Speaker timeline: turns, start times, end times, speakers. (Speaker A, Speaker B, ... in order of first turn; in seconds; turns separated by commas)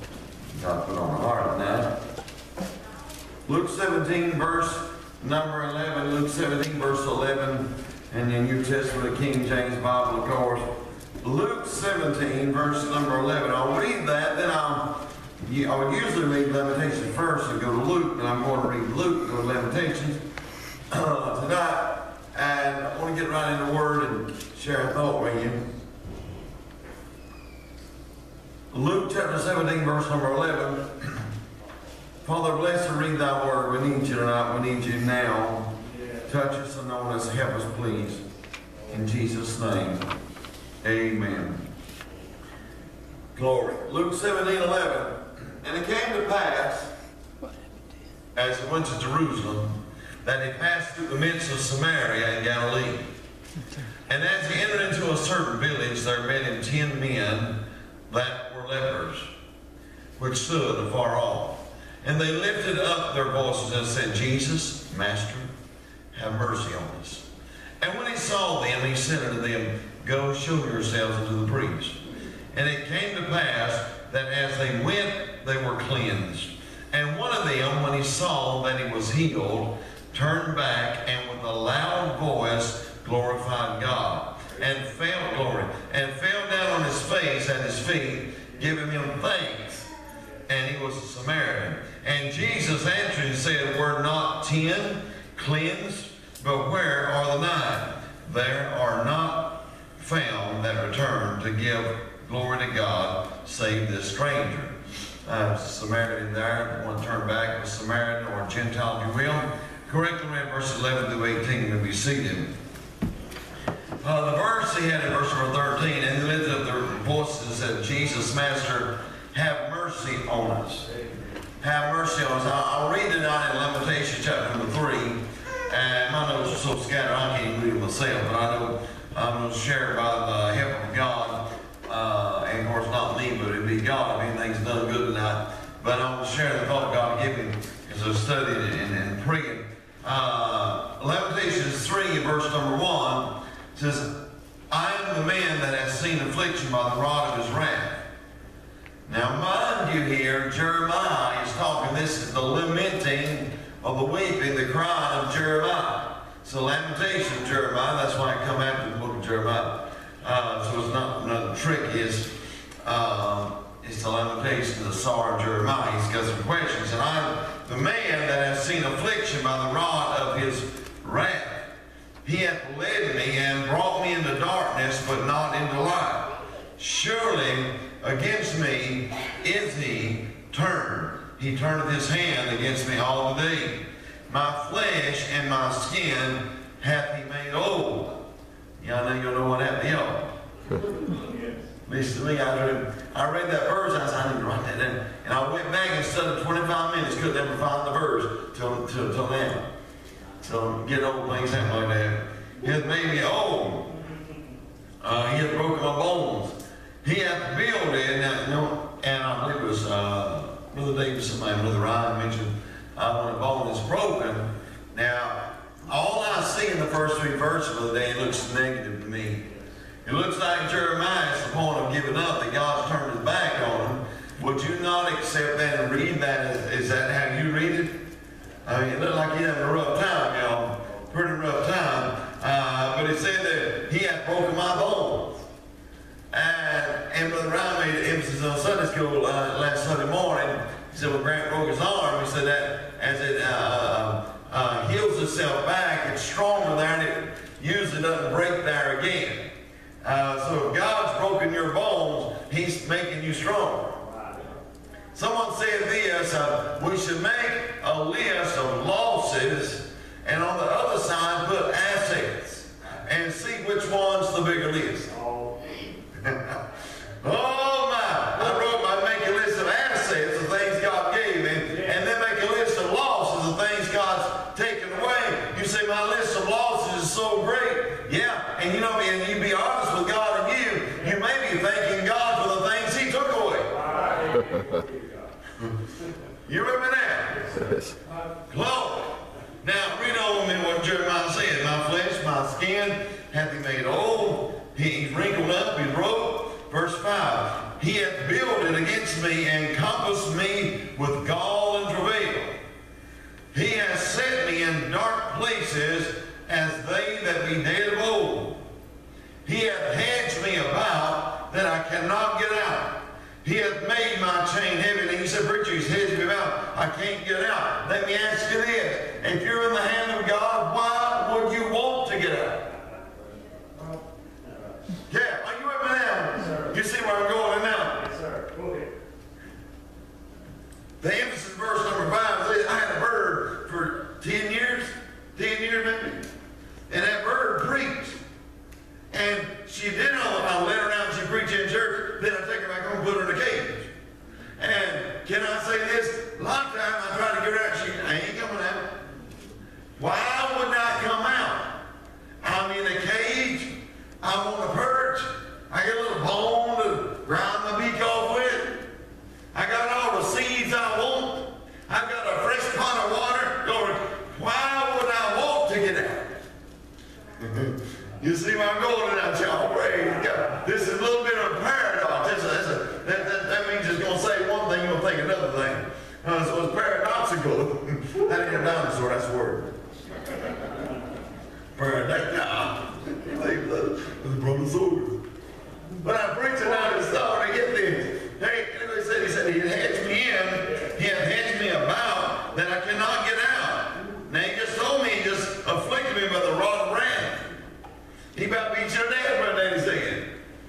Speaker A: 0.5-2.0, Speaker A: 3.5-10.7, Speaker A: 11.2-20.2, Speaker A: 20.9-25.7, Speaker A: 28.7-31.2, Speaker A: 32.2-35.7, Speaker B: 35.9-36.2, Speaker A: 36.3-38.2, Speaker A: 38.9-40.0, Speaker A: 40.8-41.6, Speaker A: 43.3-46.9, Speaker A: 48.3-53.0, Speaker A: 54.1-59.3, Speaker A: 60.2-65.5, Speaker A: 66.1-67.2, Speaker A: 67.8-72.0, Speaker A: 72.5-89.9, Speaker A: 90.5-112.5, Speaker A: 114.0-120.9, Speaker B: 120.9-121.3, Speaker A: 121.6-144.2, Speaker A: 144.7-148.0, Speaker A: 149.1-171.7, Speaker A: 172.2-188.2, Speaker A: 188.8-190.3, Speaker B: 191.1-191.6, Speaker A: 191.8-199.7, Speaker A: 200.4-203.9, Speaker A: 205.0-219.4, Speaker A: 220.0-228.1, Speaker A: 228.6-235.4, Speaker A: 236.3-254.0, Speaker B: 254.0-254.5, Speaker A: 255.1-265.1, Speaker B: 265.1-265.9, Speaker A: 266.2-266.6, Speaker A: 267.2-283.8, Speaker B: 283.8-285.3, Speaker A: 286.4-287.8, Speaker A: 288.5-302.6, Speaker A: 303.5-308.6, Speaker A: 309.4-322.7, Speaker B: 324.4-324.8, Speaker A: 325.1-328.1, Speaker B: 328.0-328.9, Speaker A: 331.0-336.3, Speaker A: 336.9-338.2, Speaker A: 339.1-343.9, Speaker A: 344.6-349.0, Speaker A: 350.0-351.8, Speaker A: 352.4-358.9, Speaker A: 359.5-366.3, Speaker A: 367.4-379.7, Speaker A: 381.8-385.2, Speaker A: 386.0-397.5, Speaker A: 398.3-400.3